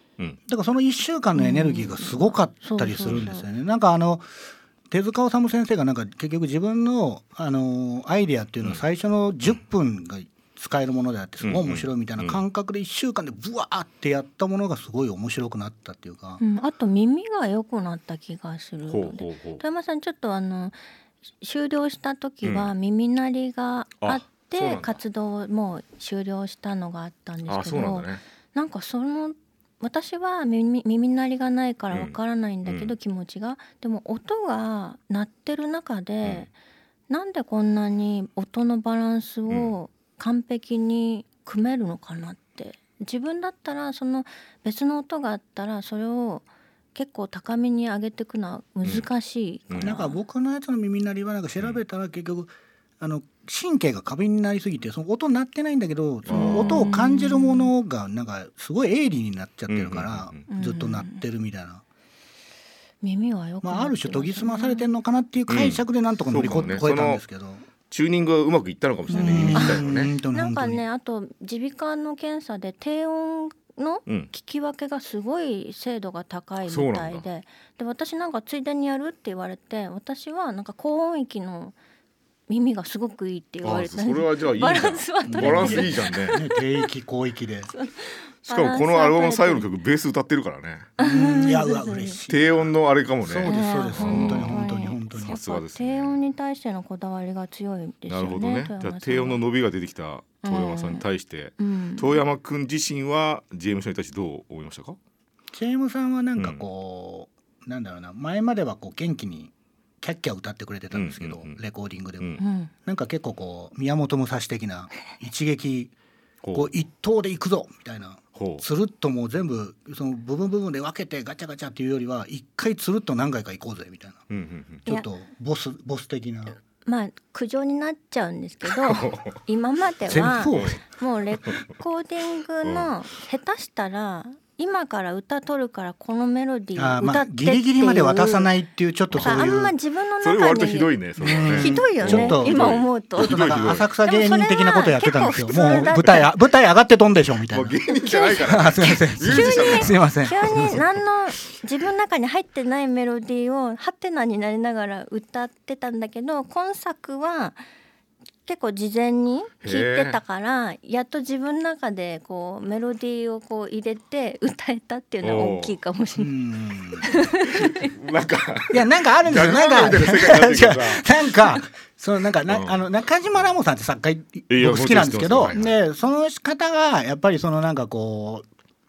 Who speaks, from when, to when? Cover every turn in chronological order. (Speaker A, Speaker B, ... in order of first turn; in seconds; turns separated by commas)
Speaker A: 0.5-4.3, Speaker B: 1.3-3.5, Speaker A: 4.9-16.4, Speaker C: 11.4-12.4, Speaker B: 16.4-20.8, Speaker C: 18.9-19.6, Speaker B: 21.4-36.5, Speaker C: 22.4-22.7, Speaker C: 24.0-25.0, Speaker C: 27.5-28.2, Speaker C: 32.6-32.9, Speaker B: 37.1-50.2, Speaker A: 49.8-61.8, Speaker C: 56.2-56.8, Speaker B: 56.3-57.7, Speaker C: 59.7-60.4, Speaker B: 60.5-61.2, Speaker B: 63.0-64.9, Speaker A: 63.6-67.6, Speaker C: 65.5-67.2, Speaker C: 67.9-70.1, Speaker A: 69.1-70.8, Speaker B: 69.1-81.7, Speaker C: 76.6-77.2, Speaker B: 82.5-86.6, Speaker C: 83.6-86.4, Speaker A: 85.2-87.7, Speaker B: 87.7-89.7, Speaker C: 88.5-90.9, Speaker B: 91.0-92.2, Speaker A: 91.0-92.7, Speaker C: 92.3-96.2, Speaker A: 93.2-95.4, Speaker B: 93.4-99.4, Speaker C: 98.1-105.0, Speaker B: 100.4-101.0, Speaker B: 101.6-102.2, Speaker A: 105.5-115.9, Speaker C: 110.9-111.6, Speaker B: 112.4-112.7, Speaker C: 116.4-116.7, Speaker A: 116.5-124.3, Speaker C: 118.3-118.6, Speaker C: 124.3-124.8, Speaker A: 124.8-126.5, Speaker B: 126.8-138.5, Speaker C: 128.9-129.3, Speaker A: 130.1-130.8, Speaker C: 130.5-130.8, Speaker C: 132.6-132.9, Speaker A: 136.8-139.7, Speaker C: 139.1-139.4, Speaker B: 139.2-143.5, Speaker C: 140.2-143.9, Speaker A: 141.2-147.8, Speaker B: 144.0-146.3, Speaker C: 147.5-150.0, Speaker B: 147.9-157.6, Speaker A: 148.4-150.8, Speaker B: 158.4-166.4, Speaker C: 159.6-160.2, Speaker C: 165.2-165.8, Speaker A: 166.2-167.1, Speaker B: 167.0-167.9, Speaker C: 167.6-171.2, Speaker A: 168.7-178.4, Speaker C: 172.5-172.8, Speaker C: 174.5-175.7